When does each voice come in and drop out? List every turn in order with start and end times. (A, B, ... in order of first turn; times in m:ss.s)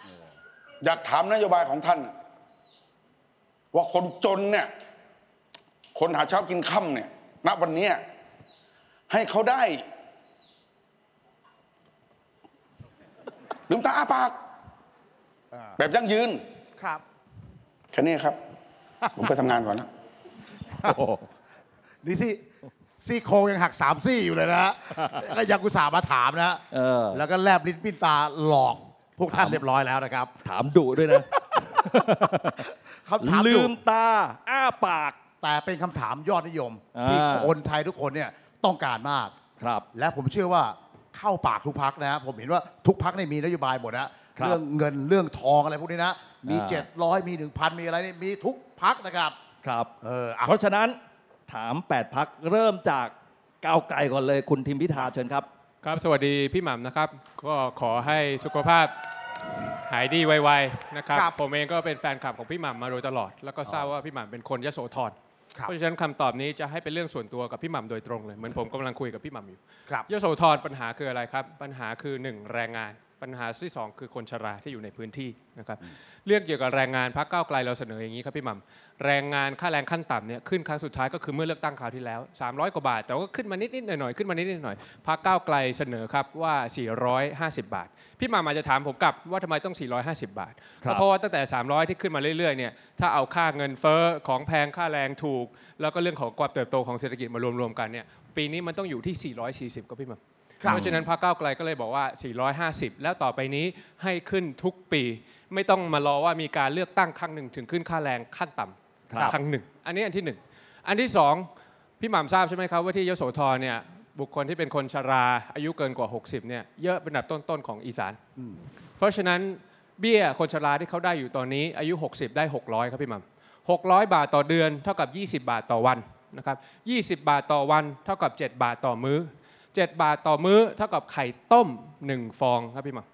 0:00.8-0:02.1 A
0:03.7-0:04.7 A
0:05.9-0:08.0 A
0:09.1-0:09.8 A
0:13.7-0:14.4 A
0:15.8-0:16.4 A
0:17.9-0:18.4 A
0:19.0-0:19.3 B
0:19.2-0:19.9 A
0:20.8-0:21.3 C
0:22.0-0:22.4 B
0:23.0-0:30.3 B
0:26.7-0:27.2 C
0:29.3-0:29.6 C
0:30.4-0:32.7 C
0:31.0-0:33.8 B
0:33.2-0:35.2 C
0:35.4-0:39.3 B
0:36.9-0:37.5 C
0:39.6-0:39.8 C
0:39.9-0:49.3 B
0:46.5-0:46.8 C
0:49.6-0:49.9 C
0:50.0-0:50.6 B
0:50.4-0:55.5 C
0:55.8-0:58.9 D
0:59.8-1:51.5 D
1:40.6-1:40.9 B
1:40.7-1:41.0 C
1:52.0-1:58.2 D
1:59.0-2:13.0 D